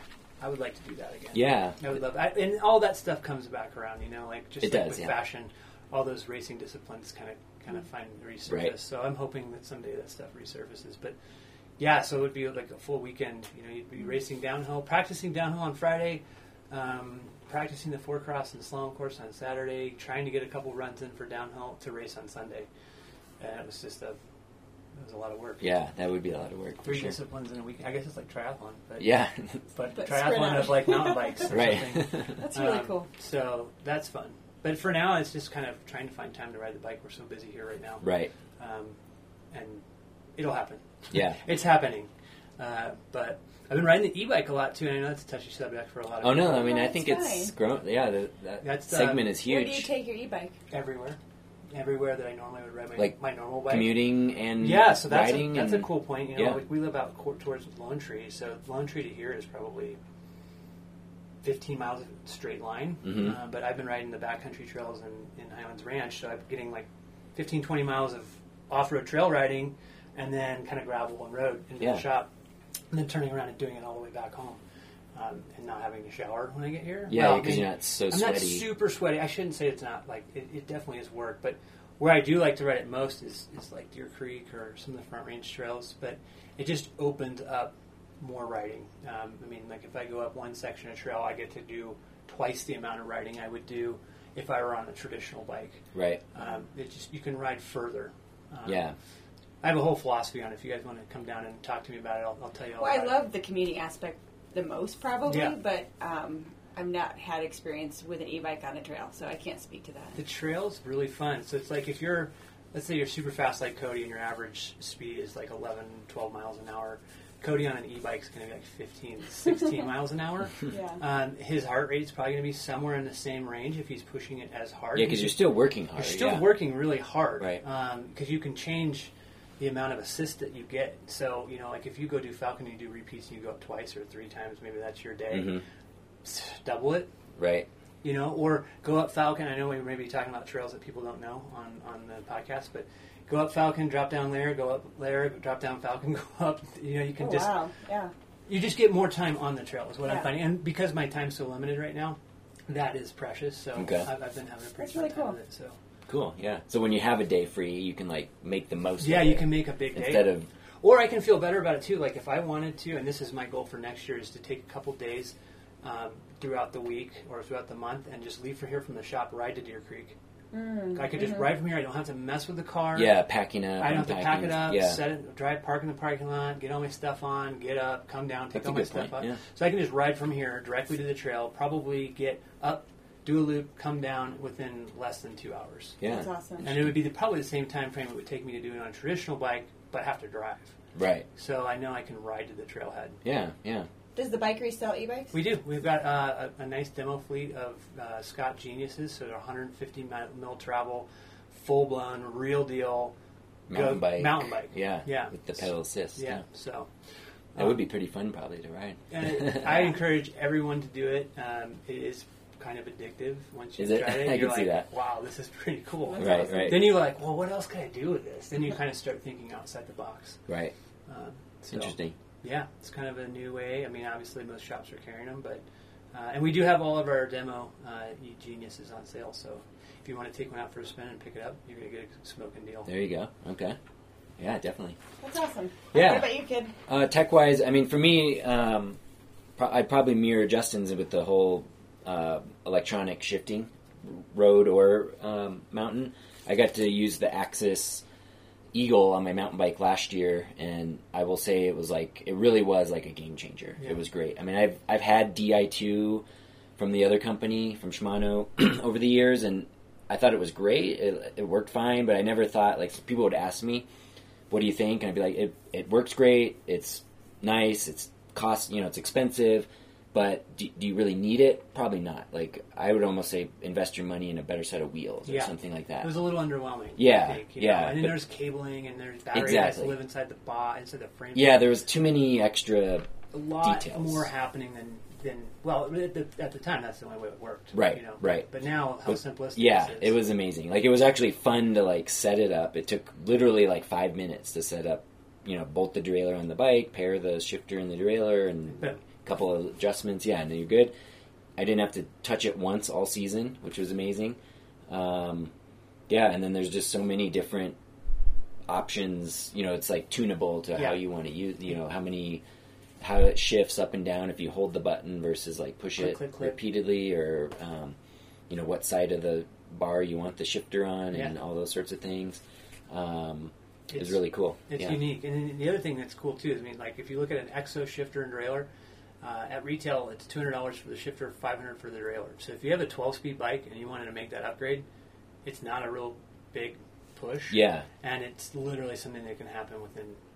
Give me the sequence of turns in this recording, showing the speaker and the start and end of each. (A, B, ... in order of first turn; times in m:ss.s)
0:00.4-0:11.1 A
0:01.3-0:01.8 B
0:04.6-0:05.1 B
0:08.5-0:08.7 B
0:11.8-0:22.7 A
0:23.4-0:24.2 A
0:25.0-0:25.8 A
0:25.6-0:27.2 B
0:26.8-0:29.2 A
0:29.0-0:29.6 B
0:29.7-0:38.0 A
0:29.9-0:31.5 C
0:31.5-0:32.4 B
0:32.4-0:33.1 C
0:38.0-0:38.3 B
0:38.6-0:39.0 A
0:39.5-0:39.8 A
0:40.4-0:46.8 A
0:41.1-0:41.4 B
0:46.2-0:49.9 B
0:46.5-0:47.5 C
0:48.6-0:49.3 A
0:49.4-0:50.6 C
0:50.7-0:51.2 A
0:51.7-1:00.0 A
0:53.0-0:56.6 B
1:01.4-1:12.3 A
1:03.0-1:03.4 B
1:11.8-1:12.0 B
1:12.9-1:14.6 A
1:15.1-1:38.8 A
1:17.1-1:18.7 B
1:35.9-1:36.2 B
1:38.6-1:38.9 B
1:39.6-1:43.2 A
1:42.8-1:50.2 C
1:45.3-1:45.6 A
1:50.2-2:15.6 A
2:00.7-2:01.0 C
2:04.9-2:06.6 B
2:15.3-2:15.6 B
2:16.2-2:17.1 A
2:17.4-2:17.7 B
2:18.0-2:27.6 A
2:27.2-2:28.1 C
2:28.5-2:35.8 A
2:30.0-2:30.3 C
2:33.8-2:34.1 B
2:34.8-2:35.4 C
2:36.1-2:40.5 B
2:39.0-2:50.2 A
2:50.5-2:51.6 C
2:50.9-2:53.1 A
2:52.9-2:55.0 B
2:53.8-3:06.0 A
2:58.5-2:59.4 B
3:06.0-3:06.3 B
3:06.0-3:06.7 C
3:06.6-3:10.7 A
3:10.9-3:11.2 B
3:11.4-3:13.2 A
3:13.2-3:13.9 B
3:14.2-3:15.4 C
3:15.3-3:23.1 A
3:23.7-3:26.4 B
3:23.7-3:26.9 A
3:27.6-3:29.7 B
3:29.1-3:40.4 A
3:33.8-3:34.9 B
3:36.1-3:36.9 C
3:36.2-3:36.9 B
3:40.5-3:40.7 B
3:41.1-3:52.9 A
3:41.7-3:42.1 B
3:52.8-3:53.8 B
3:54.4-3:55.0 B
3:55.2-3:56.7 C
3:55.9-3:56.3 B
3:56.8-3:59.0 B
3:59.6-4:08.0 B
4:08.7-4:16.2 B
4:16.8-4:23.9 B
4:24.5-4:36.1 B
4:35.2-4:41.7 A
4:37.0-4:38.2 B
4:39.3-4:40.0 B
4:41.3-4:44.3 B
4:43.3-4:50.2 A
4:47.7-4:48.4 B
4:49.1-5:00.9 B
4:58.7-4:59.0 A
5:01.6-5:04.4 B
5:04.9-5:05.5 B
5:06.1-5:07.8 B
5:08.7-5:12.4 B
5:13.0-5:18.0 B
5:16.0-5:16.6 A
5:18.5-5:25.0 B
5:23.9-5:28.7 A
5:29.2-5:34.8 A
5:35.4-5:40.2 A
5:37.5-5:37.8 B